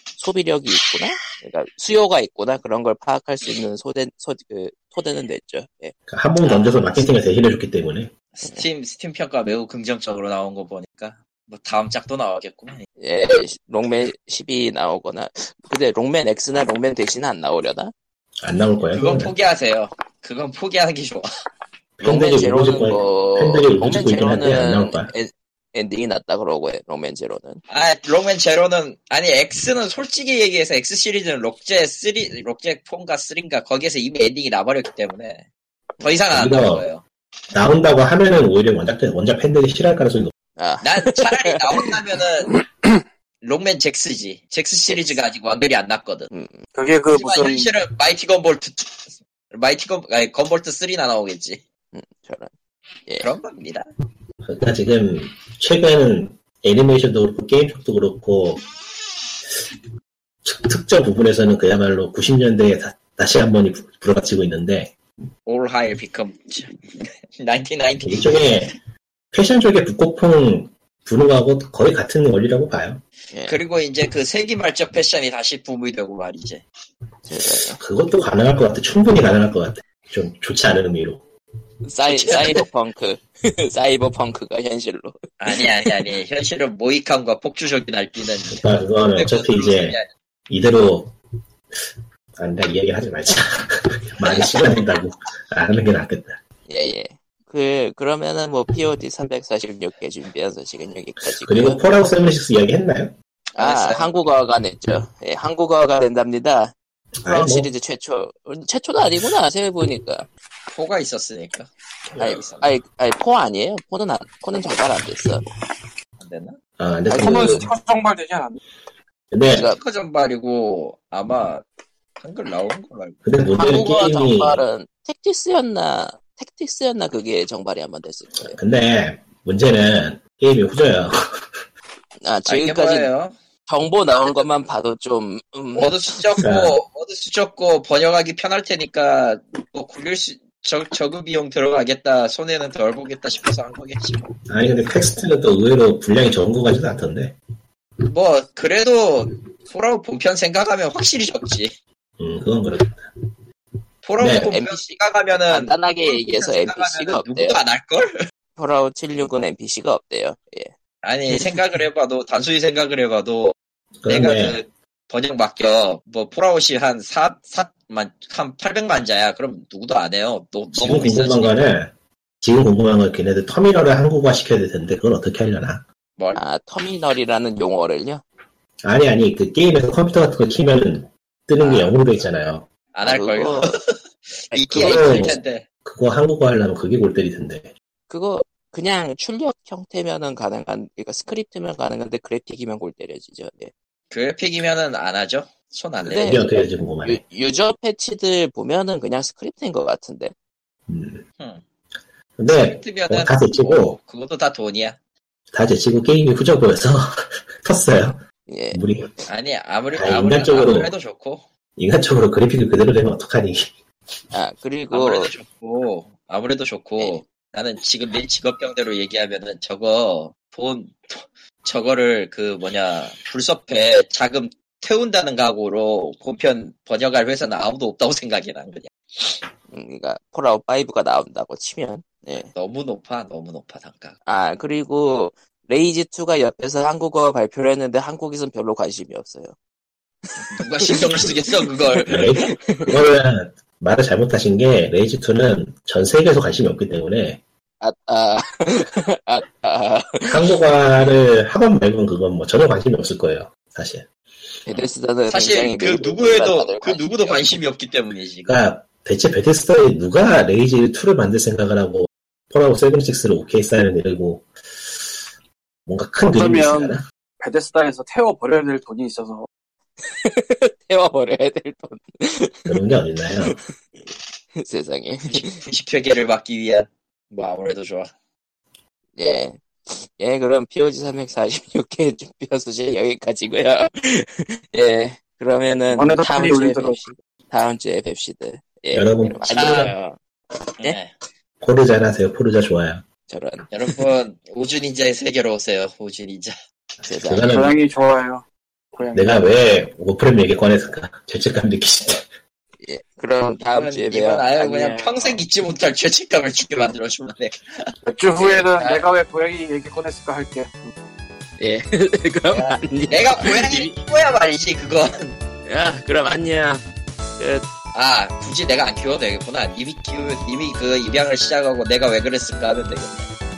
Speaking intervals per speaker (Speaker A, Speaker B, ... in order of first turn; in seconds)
Speaker A: 0.2-5.9, 13.0-17.9, 22.0-27.6, 40.6-41.9, 44.9-45.2, 46.3-46.6, 51.9-52.5, 73.3-73.6, 77.3-77.8, 81.9-86.0, 96.7-101.8, 103.6-110.3, 112.2-115.4, 119.5-119.8, 123.5-128.6, 132.2-133.1, 133.7-136.4, 154.4-154.9, 155.5-157.6, 158.6-160.7, 176.3-178.2, 183.1-183.7, 184.5-185.4, 188.1-193.7, 196.1-196.4, 197.0-200.3, 208.5-208.8, 214.3-215.3, 229.7-232.5, 234.3-239.6, 240.2-242.9, 247.8-250.4, 254.7-257.6, 270.0-272.8, 274.6-275.6, 279.2-290.2, 293.3-294.0, 297.0-297.5, 302.8-305.4, 311.6-313.9, 315.6-316.8, 317.4-317.6
Speaker B: 6.1-8.1, 18.4-19.3, 22.0-25.1, 36.3-36.8, 37.5-40.3, 54.4-58.6, 60.4-65.0, 68.0-68.7, 69.3-73.0, 77.8-81.2, 88.5-90.0, 90.5-91.1, 92.4-96.4, 101.3-103.1, 107.2-107.7, 116.8-117.7, 119.3-119.7, 123.2-124.6, 128.4-131.5, 136.4-136.8, 144.5-147.4, 152.2-153.1, 154.2-154.5, 164.0-164.6, 170.7-175.8, 178.8-182.7, 184.7-187.7, 196.1-197.2, 200.9-201.2, 202.4-204.0, 205.5-208.2, 208.7-209.1, 209.9-210.9, 211.8-213.7, 242.1-247.4, 250.3-254.1, 258.4-264.4, 265.9-267.1, 272.7-273.6, 288.9-289.9, 291.6-293.1, 297.2-297.8, 299.1-302.3
Speaker C: 6.4-7.0, 8.3-12.8, 18.9-21.3, 27.7-35.5, 36.0-37.0, 40.8-42.5, 43.4-46.3, 47.1-51.6, 53.2-53.9, 65.5-68.7, 73.5-76.6, 82.1-82.6, 85.4-90.1, 94.2-94.8, 103.5-104.1, 110.7-112.7, 116.2-116.6, 119.6-121.6, 122.2-123.2, 132.5-133.3, 135.7-144.2, 148.1-151.7, 154.0-158.2, 161.0-163.6, 164.1-171.6, 181.6-182.0, 182.9-185.6, 194.1-196.4, 202.5-205.0, 209.3-211.4, 214.9-229.4, 232.5-234.2, 240.5-242.3, 255.3-258.5, 275.2-278.1, 289.5-289.9, 290.8-291.1, 293.7-296.6, 303.7-309.1, 312.5-315.4, 317.9-323.3
Speaker D: 46.7-47.7, 117.1-118.6, 266.3-269.5, 285.9-287.0, 297.4-298.4, 298.9-299.4, 308.0-310.9